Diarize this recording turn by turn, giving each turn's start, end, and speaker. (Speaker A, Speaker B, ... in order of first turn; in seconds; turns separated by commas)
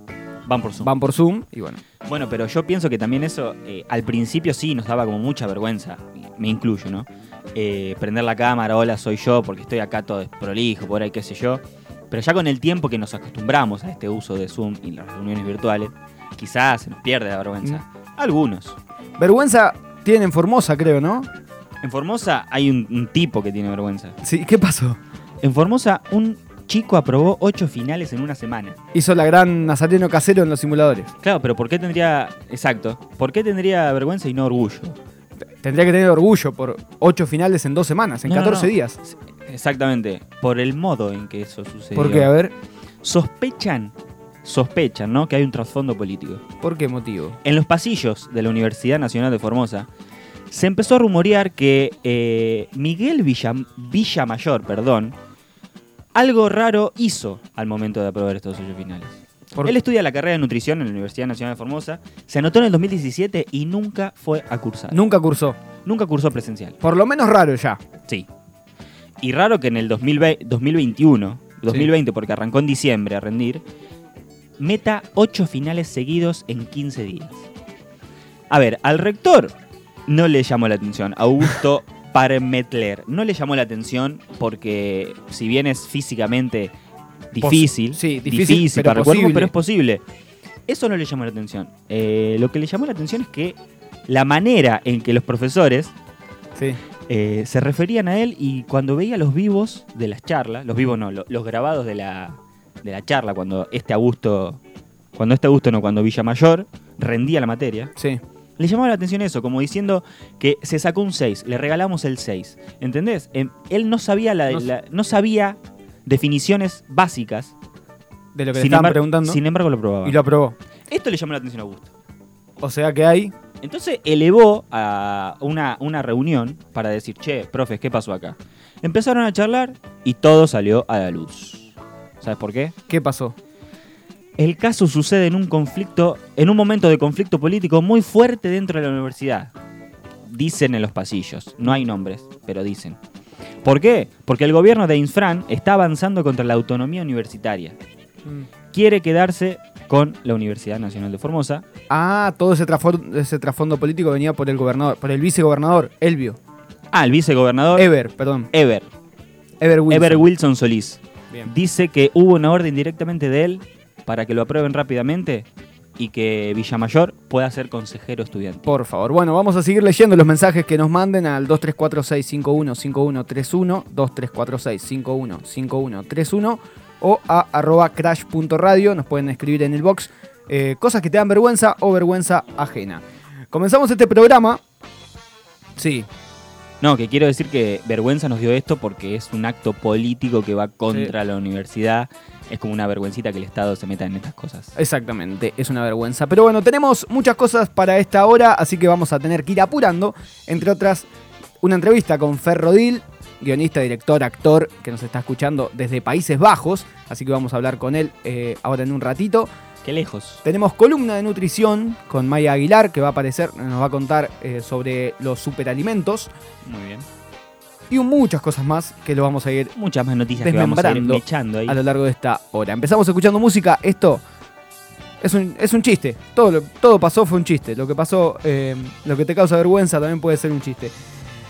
Speaker A: 0.5-0.9, Speaker B: 0.8-1.8, Speaker A: 2.0-18.8, Speaker B: 19.2-21.3, Speaker A: 21.8-24.2, Speaker B: 24.2-25.0, Speaker A: 25.4-28.8, Speaker B: 28.9-31.1, Speaker A: 31.2-35.0, Speaker B: 35.6-39.0, Speaker A: 38.2-42.3, Speaker B: 41.9-42.5, Speaker A: 43.0-46.4, Speaker B: 46.6-47.4, Speaker A: 47.4-49.9, Speaker A: 50.5-55.1, Speaker A: 56.1-65.0, Speaker B: 64.9-65.6, Speaker A: 65.8-66.8, Speaker B: 66.8-67.8, Speaker A: 69.2-73.6, Speaker A: 74.6-77.4, Speaker A: 78.5-79.5, Speaker A: 80.1-86.7, Speaker A: 87.3-90.0, Speaker B: 87.4-89.5, Speaker A: 90.7-93.6, Speaker A: 94.1-95.9, Speaker A: 97.1-104.6, Speaker A: 105.2-107.9, Speaker A: 108.6-117.5, Speaker B: 118.3-119.4, Speaker A: 118.5-120.2, Speaker B: 120.0-120.6, Speaker A: 120.9-121.9, Speaker B: 122.6-123.3, Speaker A: 123.6-132.7, Speaker B: 132.9-133.3, Speaker A: 134.4-139.5, Speaker A: 140.2-143.0, Speaker A: 143.6-147.8, Speaker A: 148.7-151.6, Speaker B: 151.9-156.4, Speaker A: 156.9-157.9, Speaker B: 157.8-158.5, Speaker A: 158.5-158.9, Speaker B: 159.6-160.3, Speaker A: 159.9-165.4, Speaker A: 166.0-168.7, Speaker B: 168.7-184.6, Speaker B: 185.8-186.1, Speaker A: 186.8-194.7, Speaker B: 194.7-201.1, Speaker B: 201.6-209.5, Speaker A: 209.8-210.4, Speaker B: 210.4-216.3, Speaker A: 216.6-217.1, Speaker B: 217.9-219.7, Speaker A: 219.7-221.8, Speaker B: 220.3-224.2, Speaker B: 225.2-230.9